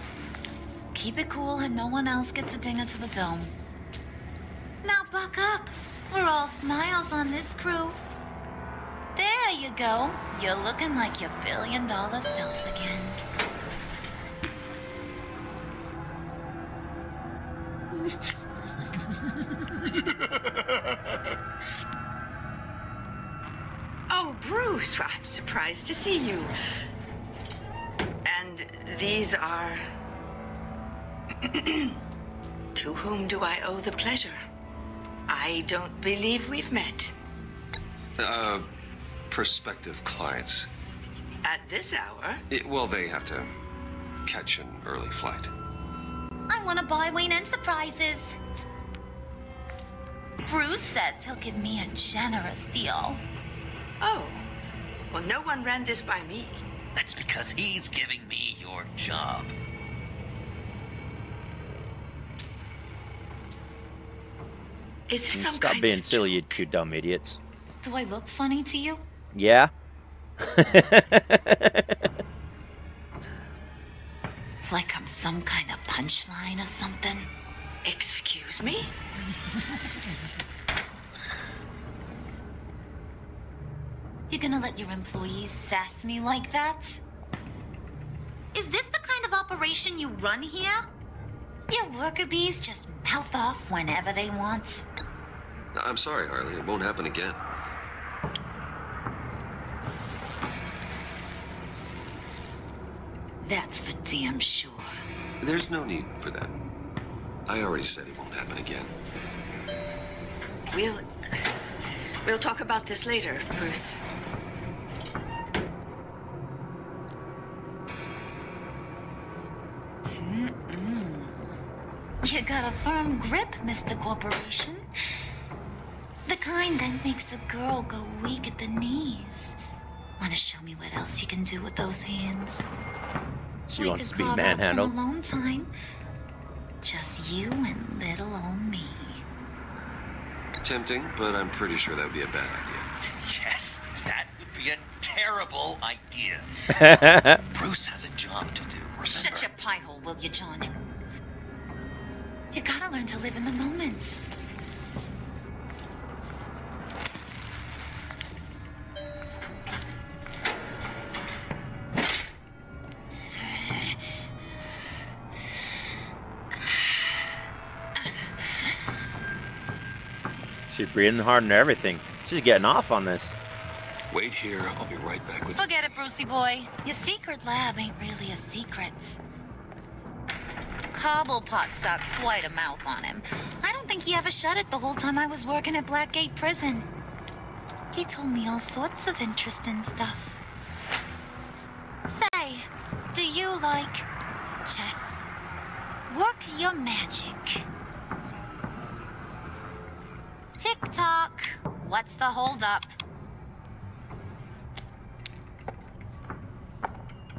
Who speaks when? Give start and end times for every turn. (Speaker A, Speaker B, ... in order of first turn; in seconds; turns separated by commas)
Speaker A: 0.9-3.5, Speaker A: 4.8-8.0, Speaker A: 9.2-13.2, Speaker B: 24.1-26.5, Speaker B: 28.3-29.8, Speaker B: 31.7-31.9, Speaker B: 32.8-34.4, Speaker B: 35.3-37.1, Speaker C: 38.2-38.7, Speaker C: 39.3-40.7, Speaker B: 41.4-42.4, Speaker C: 42.5-43.5, Speaker C: 44.2-45.5, Speaker A: 46.5-48.3, Speaker A: 50.5-53.2, Speaker B: 54.0-54.5, Speaker B: 55.1-56.6, Speaker D: 57.0-59.5, Speaker B: 65.1-66.6, Speaker E: 65.3-67.4, Speaker A: 67.8-69.0, Speaker E: 69.3-69.7, Speaker E: 70.4-72.0, Speaker A: 74.6-77.3, Speaker B: 77.8-78.9, Speaker A: 84.3-87.0, Speaker A: 88.5-90.8, Speaker A: 91.7-94.8, Speaker C: 95.7-97.4, Speaker A: 103.4-104.9, Speaker C: 105.4-106.6, Speaker C: 107.5-108.9, Speaker B: 110.7-111.0, Speaker B: 112.2-114.0, Speaker A: 120.2-121.5, Speaker A: 122.2-124.8, Speaker A: 126.3-129.6, Speaker A: 130.2-132.7, Speaker E: 133.7-134.9, Speaker A: 133.8-135.7, Speaker A: 136.8-139.2, Speaker C: 140.6-142.9, Speaker D: 143.2-149.5, Speaker E: 146.7-147.4, Speaker A: 149.1-150.7, Speaker A: 152.5-154.2, Speaker E: 170.7-173.4, Speaker C: 174.1-175.9, Speaker A: 175.6-179.2, Speaker A: 180.9-186.9, Speaker A: 187.9-190.4, Speaker A: 192.1-194.1, Speaker A: 194.7-195.3, Speaker A: 196.1-197.7, Speaker A: 200.6-202.9